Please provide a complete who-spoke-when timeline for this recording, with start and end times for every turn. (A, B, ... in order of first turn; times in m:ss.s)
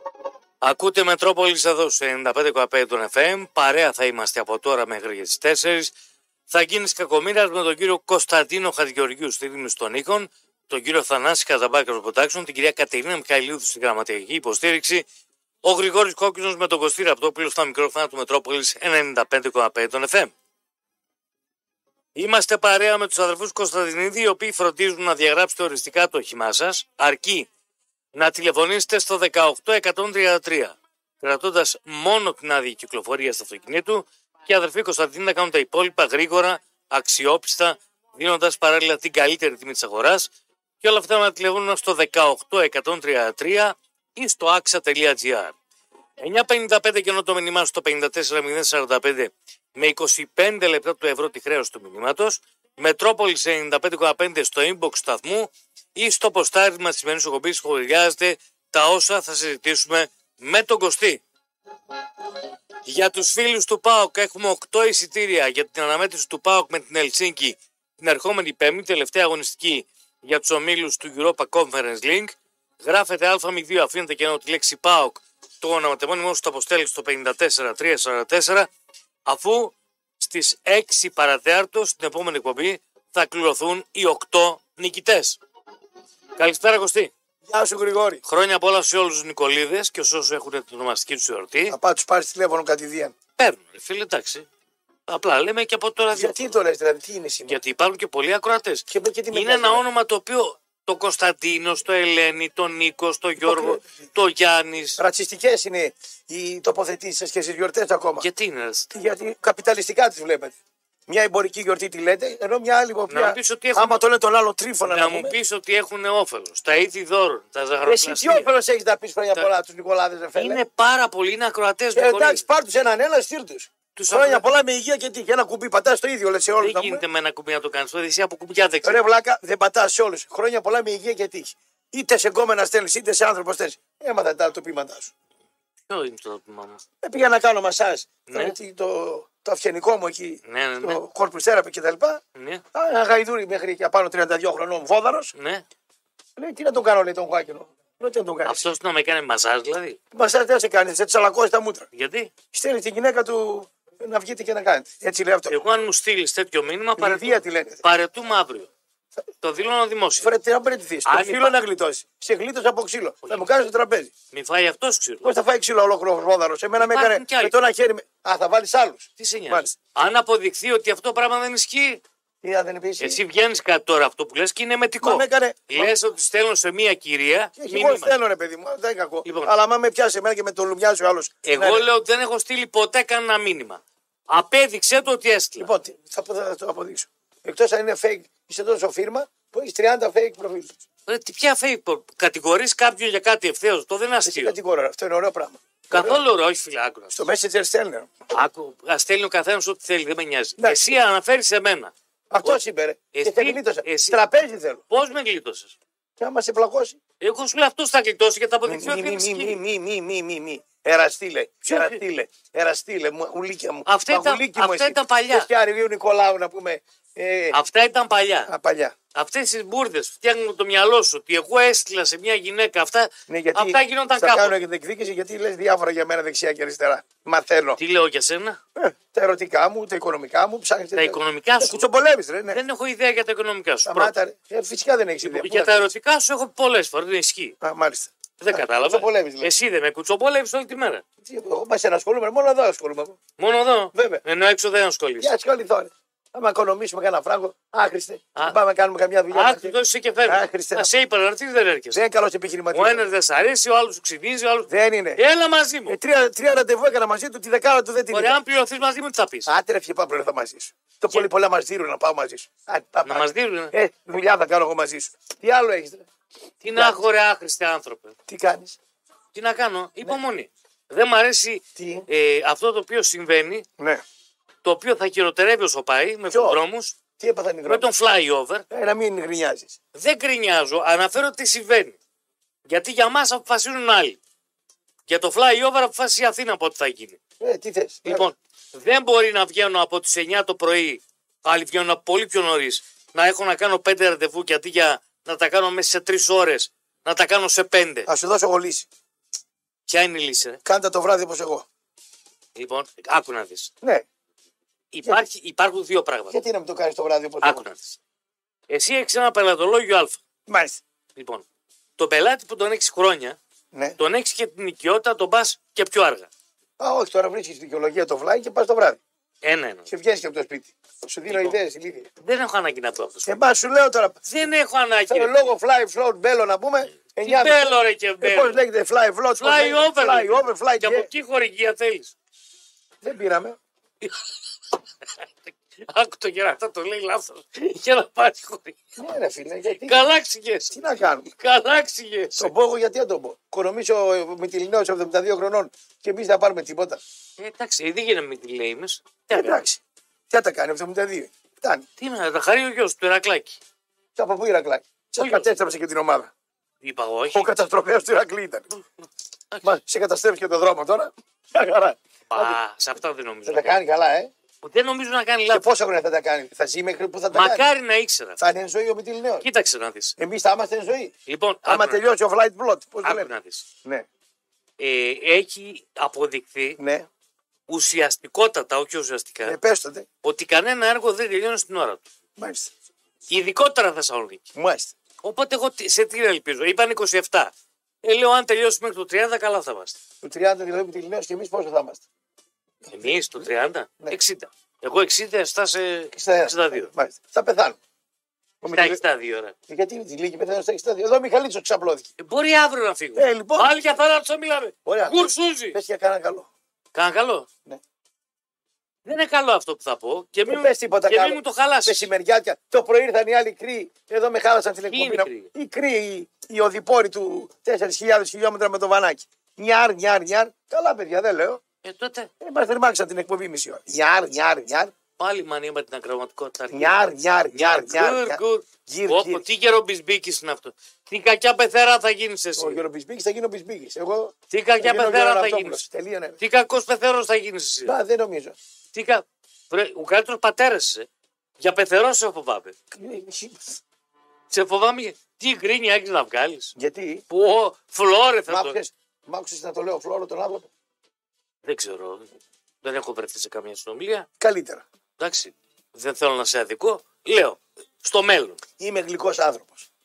0:00.6-0:05.9 A
0:06.5-0:15.0 A
0:15.6-0:20.3 A
0:22.1-0:27.5 A
0:28.1-0:40.3 A
0:40.8-0:45.5 A
0:46.2-1:01.2 A
1:02.8-1:18.7 A
1:19.2-1:25.4 A
1:26.4-1:27.1 A
1:27.4-1:28.2 B
1:28.2-1:31.8 A
1:31.7-1:33.1 B
1:33.4-1:34.5 A
1:35.1-1:36.5 A
1:36.1-1:37.6 B
1:37.5-1:45.0 A
1:38.9-1:39.8 B
1:43.4-1:43.8 B
1:45.0-1:48.2 B
1:48.2-1:48.9 A
1:48.9-1:50.6 B
1:51.1-1:55.3 B
1:53.1-1:54.0 A
1:54.8-1:58.5 A
1:57.8-2:00.6 B
2:00.4-2:02.4 A
2:01.9-2:07.0 B
2:03.9-2:04.5 A
2:06.6-2:09.0 A
2:08.8-2:15.1 B
2:15.9-2:16.8 A
2:17.0-2:22.2 B
2:18.3-2:18.6 A
2:20.4-2:21.0 A
2:22.3-2:22.6 A
2:22.7-2:25.3 B
2:25.3-2:25.6 A
2:26.4-2:28.6 B
2:28.4-2:30.0 A
2:30.1-2:31.9 B
2:31.9-2:32.3 A
2:32.5-2:35.6 B
2:35.5-2:38.7 A
2:37.0-2:37.8 B
2:39.4-2:40.3 A
2:40.2-2:44.1 B
2:41.0-2:41.6 A
2:43.2-2:43.5 A
2:44.3-2:45.3 A
2:45.2-2:49.7 B
2:46.8-2:47.5 A
2:49.2-2:52.0 A
2:52.4-2:53.2 B
2:53.0-2:58.1 A
2:55.0-2:55.9 B
2:57.6-3:01.8 B
2:59.2-2:59.5 A
3:01.4-3:05.7 A
3:05.6-3:10.7 B
3:11.1-3:14.6 A
3:14.2-3:16.2 B
3:15.9-3:17.3 A
3:17.1-3:18.1 B
3:18.3-3:22.6 A
3:22.3-3:24.8 B
3:23.1-3:24.2 A
3:24.9-3:25.8 A
3:26.2-3:27.0 B
3:27.2-3:29.6 A
3:28.6-3:37.6 B
3:31.7-3:32.0 A
3:33.8-3:35.5 A
3:37.5-3:38.5 A
3:38.5-3:38.9 B
3:39.1-3:44.6 A
3:43.3-3:47.8 B
3:47.8-3:48.6 A
3:48.8-3:52.6 B
3:51.0-3:51.9 A
3:52.5-3:54.1 A
3:53.8-3:55.9 B
3:55.2-3:57.6 A
3:57.6-3:59.5 B
3:58.4-4:01.0 A
4:01.2-4:03.2 B
4:03.4-4:05.3 A
4:03.9-4:04.2 B
4:05.2-4:10.9 B
4:09.3-4:12.0 A
4:11.9-4:13.1 B
4:12.7-4:16.0 A
4:14.7-4:15.2 B
4:15.9-4:18.4 B
4:18.1-4:19.5 A
4:19.4-4:26.0 B
4:23.0-4:23.7 A
4:26.6-4:28.2 A
4:26.7-4:27.0 B
4:28.3-4:28.8 B
4:29.3-4:33.7 A
4:31.8-4:32.0 B
4:34.6-4:37.0 A
4:36.3-4:36.6 B
4:37.2-4:37.9 B
4:37.6-4:38.6 A
4:38.7-4:39.8 B
4:39.9-4:42.0 A
4:42.6-4:44.2 A
4:45.1-4:47.2 A
4:47.4-4:48.3 B
4:48.0-4:58.1 A
4:58.1-4:58.9 B
4:59.9-5:00.6 A
5:00.6-5:01.6 B
5:02.6-5:03.7 A
5:04.9-5:06.4 A
5:06.3-5:07.6 B
5:07.4-5:08.0 A
5:08.7-5:10.2 A
5:10.5-5:10.8 B
5:11.2-5:11.4 A
5:12.0-5:13.4 A
5:13.7-5:14.0 B
5:14.0-5:16.3 A
5:16.8-5:19.0 B
5:19.4-5:19.9 A
5:19.9-5:22.1 B
5:21.3-5:21.6 A
5:22.2-5:23.4 A
5:23.2-5:24.2 B
5:24.2-5:25.5 A
5:25.1-5:31.1 B
5:27.2-5:28.6 A
5:29.4-5:32.1 A
5:33.0-5:33.6 B
5:34.0-5:34.4 A
5:35.2-5:38.8 A
5:39.0-5:40.1 B
5:39.8-5:42.5 A
5:40.7-5:41.3 B
5:42.3-5:47.0 B
5:47.4-5:49.6 A
5:49.3-5:51.8 B
5:52.0-5:53.6 A
5:54.2-5:56.3 B
5:55.2-5:55.5 A
5:56.8-5:57.5 A
5:57.3-5:58.7 B
5:59.6-6:02.6 B
6:02.3-6:03.8 A
6:03.4-6:04.3 B
6:04.6-6:05.6 A
6:05.5-6:07.6 B
6:07.3-6:08.4 A
6:08.4-6:09.4 B
6:09.4-6:10.1 A
6:10.2-6:11.1 B
6:11.3-6:12.0 A
6:11.6-6:13.3 B
6:13.0-6:13.6 A
6:14.8-6:16.8 A
6:16.8-6:17.1 B
6:17.7-6:19.6 A
6:19.4-6:20.1 B
6:20.2-6:22.0 A
6:22.4-6:22.7 B
6:23.3-6:24.5 A
6:24.5-6:24.9 B
6:25.2-6:27.5 A
6:28.0-6:30.0 A
6:30.2-6:32.0 B
6:32.9-6:36.9 A
6:36.1-6:37.8 B
6:38.6-6:39.0 B
6:38.7-6:39.5 A
6:39.7-6:42.1 B
6:42.2-6:45.8 A
6:43.2-6:43.7 B
6:44.8-6:46.5 B
6:46.9-6:47.5 A
6:49.0-6:52.0 A
6:50.5-7:01.6 B
6:54.9-6:55.5 A
7:01.8-7:02.3 A
7:02.4-7:04.9 B
7:05.2-7:12.8 A
7:06.7-7:09.4 B
7:12.6-7:16.4 B
7:14.5-7:15.8 A
7:16.4-7:17.9 A
7:17.8-7:18.6 B
7:18.9-7:21.1 A
7:21.6-7:22.8 A
7:22.9-7:23.8 B
7:24.5-7:26.7 A
7:26.8-7:27.2 B
7:27.3-7:28.8 A
7:28.5-7:30.7 B
7:31.6-7:32.3 A
7:32.8-7:34.3 A
7:34.4-7:34.8 B
7:35.2-7:38.6 A
7:38.8-7:39.9 B